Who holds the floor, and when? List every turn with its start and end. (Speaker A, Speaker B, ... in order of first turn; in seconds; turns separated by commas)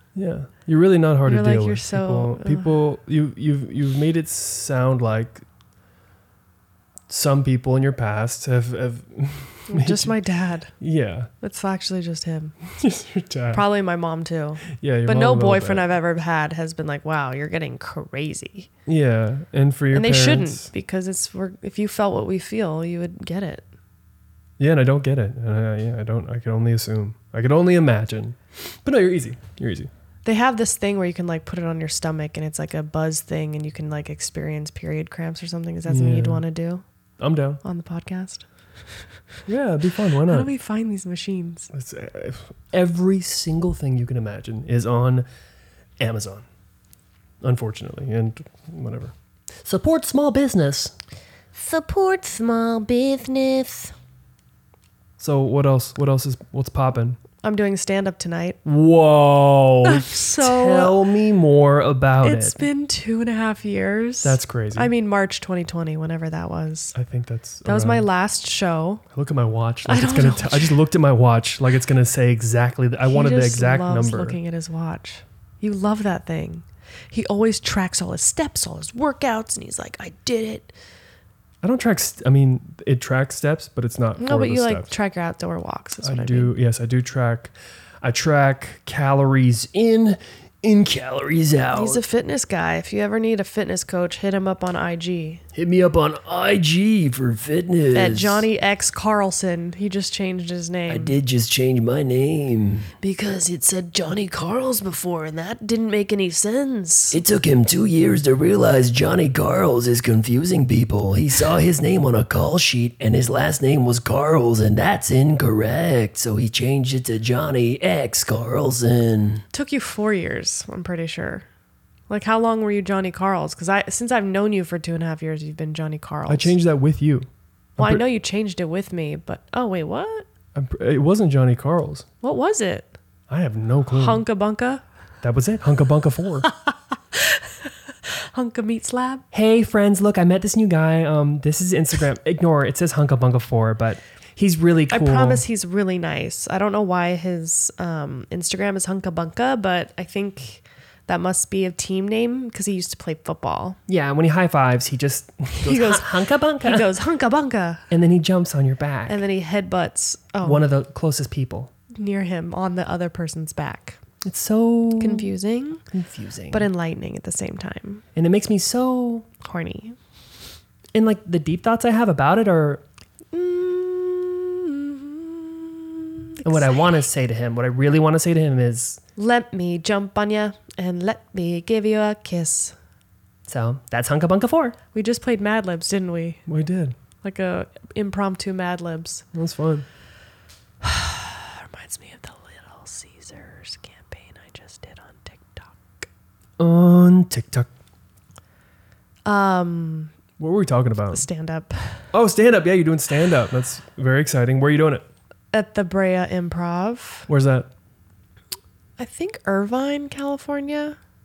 Speaker A: 0.1-5.5, Speaker B: 1.2-2.8, Speaker A: 7.1-10.1, Speaker B: 9.7-10.7, Speaker A: 10.8-11.3, Speaker B: 11.4-12.6, Speaker A: 12.7-13.6, Speaker B: 13.5-18.7, Speaker A: 14.7-15.8, Speaker A: 18.9-20.7, Speaker B: 19.9-23.6, Speaker A: 24.6-29.9, Speaker B: 30.2-36.8, Speaker A: 35.9-36.4, Speaker A: 37.2-37.6, Speaker B: 37.6-38.5, Speaker A: 39.5-40.5, Speaker B: 40.2-41.7, Speaker A: 41.7-45.3, Speaker A: 46.0-46.5, Speaker A: 47.4-50.9, Speaker C: 51.5-53.9, Speaker A: 55.2-57.2, Speaker B: 57.4-58.6, Speaker A: 58.6-62.7, Speaker B: 59.8-61.0, Speaker B: 62.2-67.0, Speaker A: 64.2-64.9, Speaker A: 67.0-68.1, Speaker B: 67.7-69.0, Speaker A: 69.1-74.4, Speaker B: 69.8-70.8, Speaker B: 73.0-80.7, Speaker A: 81.6-84.9, Speaker B: 84.2-86.5, Speaker A: 86.0-92.0, Speaker B: 91.7-95.4, Speaker A: 95.5-98.5, Speaker B: 97.9-101.2, Speaker A: 100.9-102.9, Speaker B: 103.0-107.2, Speaker A: 107.1-119.4, Speaker B: 119.5-121.5, Speaker B: 122.1-126.5, Speaker A: 126.3-128.0, Speaker B: 127.8-130.3, Speaker A: 130.6-132.1, Speaker B: 132.2-132.9, Speaker A: 133.3-134.2, Speaker B: 133.9-134.8, Speaker A: 135.2-136.5, Speaker B: 137.1-139.2, Speaker A: 139.3-145.4, Speaker B: 144.9-153.8, Speaker A: 153.9-156.9, Speaker B: 155.6-157.9, Speaker A: 157.9-159.2, Speaker B: 159.1-160.7, Speaker A: 160.4-161.7, Speaker B: 161.9-164.0, Speaker A: 164.2-165.3, Speaker B: 165.0-165.8, Speaker A: 165.9-166.7, Speaker B: 166.5-168.0, Speaker A: 168.2-169.3, Speaker B: 169.4-170.0, Speaker A: 170.9-172.8, Speaker B: 173.3-176.8, Speaker A: 176.4-179.0, Speaker B: 179.2-182.8, Speaker A: 183.5-184.8, Speaker B: 184.9-186.4, Speaker A: 186.5-187.0, Speaker B: 187.2-189.2, Speaker A: 189.3-189.8, Speaker B: 190.8-196.1, Speaker A: 196.6-197.7, Speaker B: 199.2-200.1, Speaker A: 200.4-201.3, Speaker B: 201.1-202.0, Speaker A: 202.1-205.1, Speaker B: 205.5-207.3, Speaker A: 207.3-207.7, Speaker B: 209.0-211.0